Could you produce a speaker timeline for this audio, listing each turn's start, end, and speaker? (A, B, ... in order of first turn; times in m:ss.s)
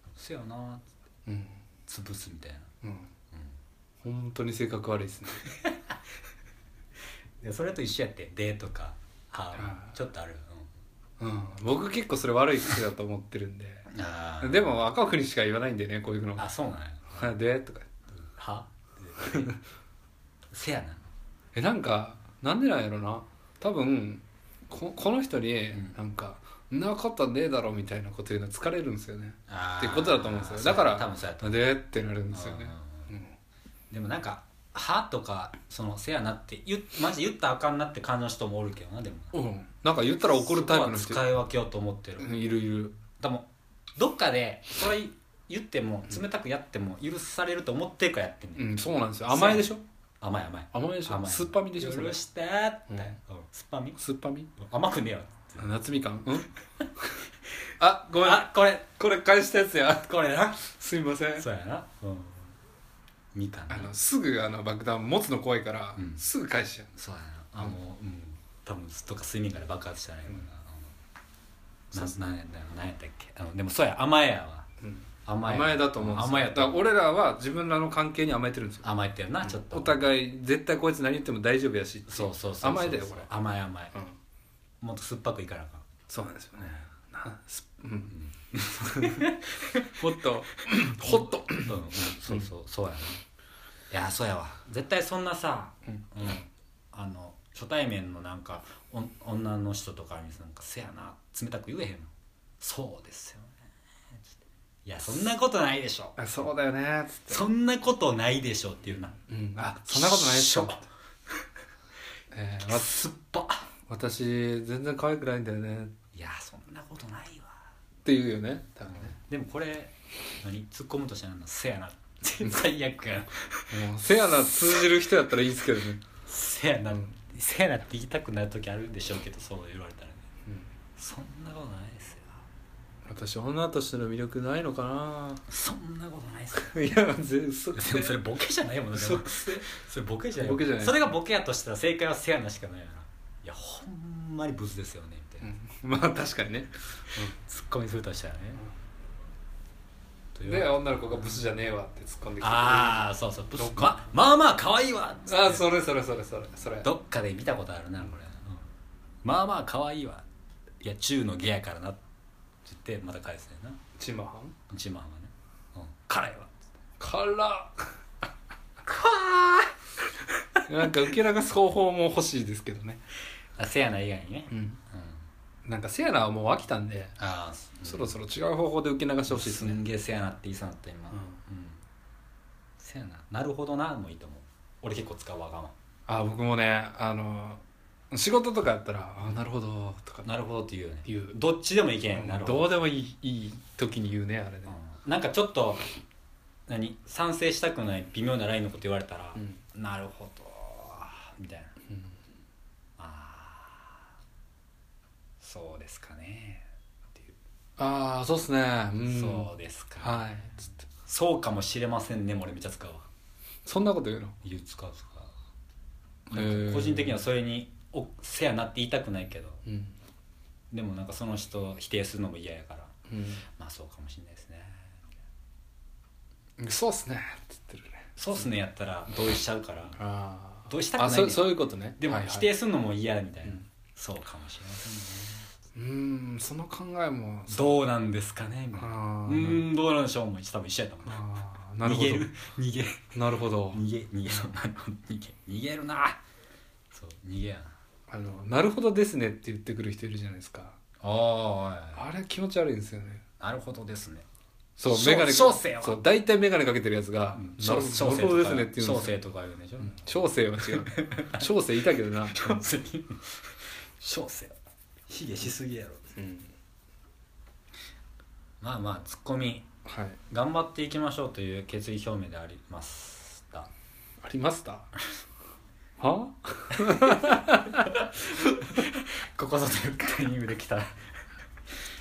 0:00.2-0:00.8 A
0:01.3-0:01.6 B
0:01.9-0:02.7 A
0:02.8-0:03.1 B
0:04.0-0:05.5 B
0:05.5-0:05.8 A
0:07.4-0:10.7 A
0:09.6-0:09.9 B
0:11.2-0:13.9 B
0:13.9-0:14.6 A
0:14.4-0:16.5 B
0:16.4-0:17.3 A
0:17.2-0:17.9 B
0:18.1-0:19.5 A
0:19.2-0:19.6 B
0:20.5-0:21.0 A
0:21.5-0:33.3 B
0:29.5-0:31.6 A
0:32.3-0:33.1 A
0:33.9-0:39.4 A
0:39.3-0:41.2 B
0:40.1-0:42.3 A
0:42.2-0:43.0 B
0:43.2-0:48.7 A
0:48.6-0:49.8 B
0:49.3-0:49.6 A
0:50.2-0:54.0 A
0:50.7-0:52.2 B
0:52.9-0:53.2 B
0:54.0-0:54.5 B
0:54.6-0:55.6 A
0:55.6-0:56.5 B
0:57.8-1:01.4 B
0:58.2-0:58.9 A
1:00.0-1:00.6 A
1:01.4-1:02.5 A
1:03.3-1:03.9 A
1:03.7-1:06.9 B
1:06.0-1:06.2 A
1:06.9-1:10.9 A
1:11.9-1:12.2 B
1:11.9-1:14.7 A
1:14.8-1:18.9 B
1:15.2-1:16.8 A
1:18.8-1:20.1 A
1:19.4-1:23.3 B
1:22.1-1:24.0 A
1:24.8-1:25.8 A
1:26.1-1:28.1 B
1:28.1-1:33.2 A
1:28.8-1:29.4 B
1:29.9-1:32.5 B
1:33.9-1:43.5 A
1:44.8-1:46.2 A
1:46.2-1:47.5 B
1:47.3-1:49.2 A
1:49.3-1:50.8 B
1:49.8-1:50.8 A
1:52.3-1:53.0 B
1:52.7-1:53.6 A
1:53.9-1:55.9 B
1:56.1-1:57.6 A
1:58.0-1:59.1 B
1:58.9-2:04.9 A
2:03.7-2:06.0 B
2:06.2-2:10.2 A
2:11.0-2:12.4 A
2:13.0-2:15.4 B
2:15.5-2:16.8 A
2:16.5-2:18.2 B
2:17.7-2:25.5 A
2:18.9-2:19.7 B
2:20.4-2:21.1 B
2:25.4-2:27.4 B
2:27.4-2:28.6 A
2:30.3-2:31.4 A
2:30.4-2:34.0 B
2:32.4-2:35.6 A
2:35.3-2:36.9 B
2:36.8-2:38.7 A
2:39.2-2:40.2 A
2:40.8-2:42.0 A
2:42.6-2:43.8 A
2:44.0-2:44.5 B
2:44.7-2:46.5 A
2:47.0-2:48.0 B
2:48.8-2:49.7 A
2:50.7-2:53.0 B
2:53.6-2:55.2 A
2:54.5-2:54.8 B
2:55.6-2:57.2 B
2:57.2-2:58.1 A
2:57.8-2:59.8 B
2:59.3-3:01.8 A
3:01.1-3:01.4 B
3:02.8-3:05.7 A
3:06.1-3:10.3 B
3:10.2-3:12.7 A
3:11.0-3:11.4 B
3:12.1-3:14.8 B
3:14.6-3:15.8 A
3:16.7-3:21.7 A
3:23.0-3:24.0 A
3:25.4-3:26.6 A
3:27.8-3:30.7 B
3:29.0-3:30.3 A
3:31.0-3:33.1 A
3:33.6-3:34.4 B
3:34.4-3:35.3 A
3:36.3-3:37.2 B
3:36.3-3:39.6 A
3:39.6-3:39.9 B
3:40.7-3:42.9 A
3:43.1-3:43.4 B
3:43.6-3:45.0 A
3:46.6-3:48.5 B
3:48.2-3:50.0 A
3:50.0-3:52.5 B
3:50.7-3:55.5 A
3:55.7-3:57.8 B
3:57.5-4:01.2 A
3:58.7-3:59.7 B
4:01.0-4:02.3 B
4:01.8-4:03.1 A
4:03.1-4:04.5 B
4:03.7-4:06.2 A
4:06.9-4:07.7 A
4:08.1-4:10.8 B
4:11.0-4:12.0 A
4:12.0-4:13.2 B
4:13.4-4:14.2 A
4:14.8-4:19.2 B
4:14.8-4:16.0 A
4:17.3-4:21.4 A
4:19.8-4:22.6 B
4:22.3-4:24.5 A
4:25.1-4:26.1 A
4:26.2-4:26.5 B
4:28.6-4:29.6 A
4:29.8-4:30.2 B
4:30.3-4:33.7 A
4:34.2-4:34.9 B
4:36.0-4:37.8 B
4:36.9-4:40.9 A